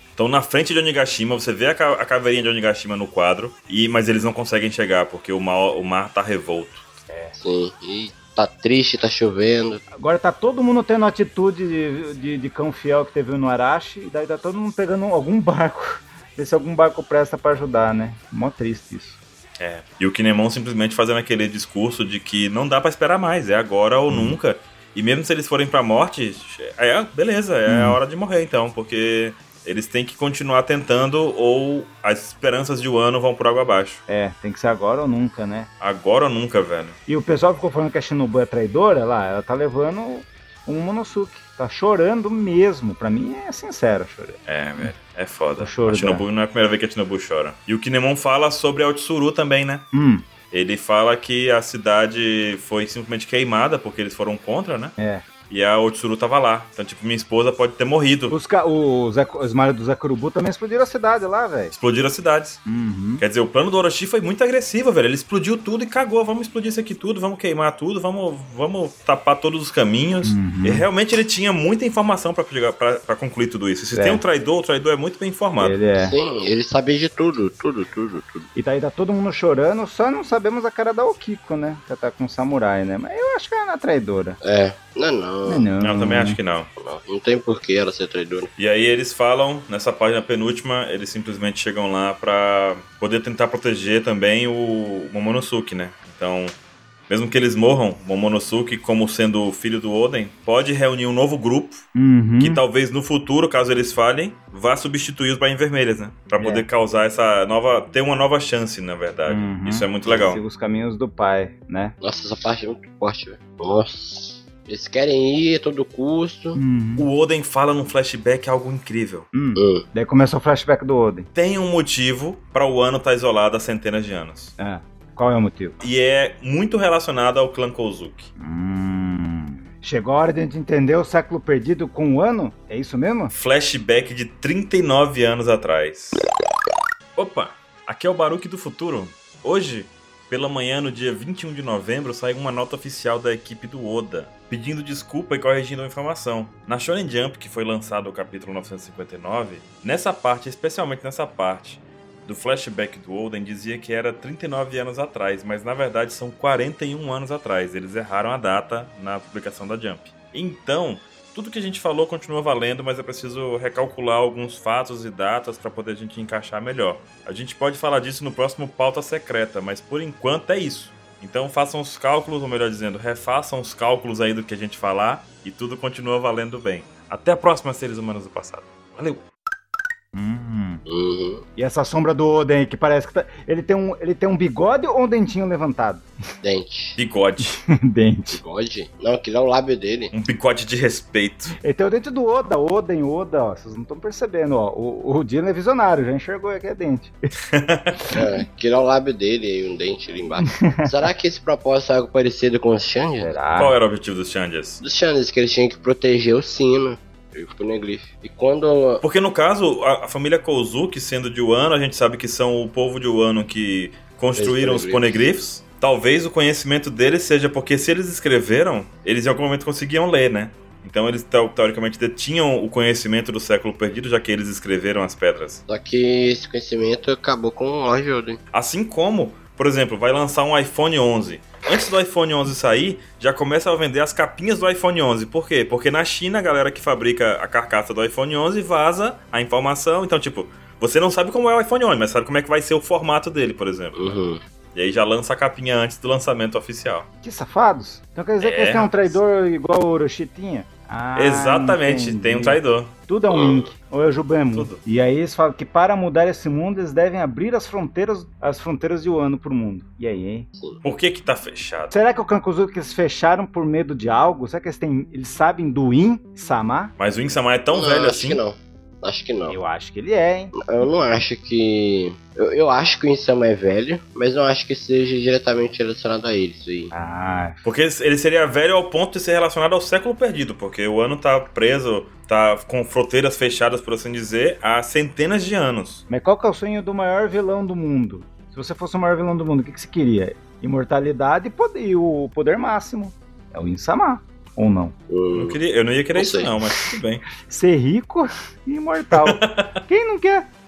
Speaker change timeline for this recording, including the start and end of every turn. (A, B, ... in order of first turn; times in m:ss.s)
0:00.2-0:06.9 A
0:07.1-0:07.4 B
0:07.4-0:09.8 C
0:10.0-0:19.2 B
0:19.6-0:34.0 A
0:24.1-0:24.4 B
0:27.7-0:28.0 B
0:34.1-0:35.7 B
0:35.8-0:37.0 A
0:37.1-0:44.9 B
0:44.5-0:49.9 A
0:45.6-0:46.2 B
0:49.9-0:50.3 B
0:50.5-0:55.0 A
0:55.0-0:55.2 B
0:55.5-0:58.4 A
0:58.3-1:01.7 B
1:01.7-1:02.6 A
1:02.7-1:03.2 B
1:03.2-1:15.8 A
1:10.2-1:10.9 B
1:13.9-1:14.2 B
1:15.6-1:16.2 B
1:16.0-1:18.5 C
1:18.6-1:24.4 B
1:24.4-1:25.7 C
1:25.5-1:26.4 B
1:25.8-1:26.7 A
1:26.8-1:28.5 C
1:28.6-1:36.6 A
1:37.1-1:41.9 A
1:42.0-1:42.6 B
1:42.4-1:50.4 A
1:46.4-1:46.6 B
1:49.3-1:52.0 B
1:52.0-1:56.6 C
1:56.6-1:57.1 B
1:57.0-1:59.3 A
1:59.3-2:01.3 B
1:59.6-1:59.8 C
2:01.4-2:04.5 A
2:04.6-2:05.8 B
2:05.8-2:08.3 A
2:08.4-2:13.3 B
2:13.3-2:16.2 A
2:17.2-2:59.2 A
3:00.1-3:00.8 B
3:00.9-3:01.4 C
3:01.6-3:06.1 B
3:06.4-3:07.0 C
3:07.0-3:07.5 A
3:07.4-3:08.4 B
3:08.4-3:10.1 C
3:10.1-3:11.5 A
3:11.6-3:17.3 B
3:17.5-3:17.9 A
3:18.0-3:18.4 B
3:18.1-3:23.4 C
3:20.5-3:20.9 B
3:23.2-3:23.8 B
3:23.6-3:24.8 A
3:24.8-3:29.0 C
3:29.0-3:45.6 A
3:34.4-3:35.2 C
3:45.7-3:48.4 C
3:48.5-4:04.2 A
4:04.0-4:04.4 C
4:04.8-4:07.1 A
4:07.2-4:20.5 B
4:08.4-4:09.2 A
4:11.2-4:12.9 A
4:13.3-4:13.7 C
4:14.5-4:14.8 A
4:20.8-4:22.0 A
4:21.9-4:26.9 B
4:27.0-4:28.4 A
4:27.7-4:29.6 C
4:29.5-4:30.5 B
4:30.6-4:36.9 C
4:36.9-4:37.6 B
4:37.6-4:46.0 A
4:46.1-4:54.9 B
4:55.1-4:55.6 C
4:55.3-4:57.2 A
4:56.1-4:56.5 C
4:57.5-5:00.5 B
4:59.1-4:59.8 A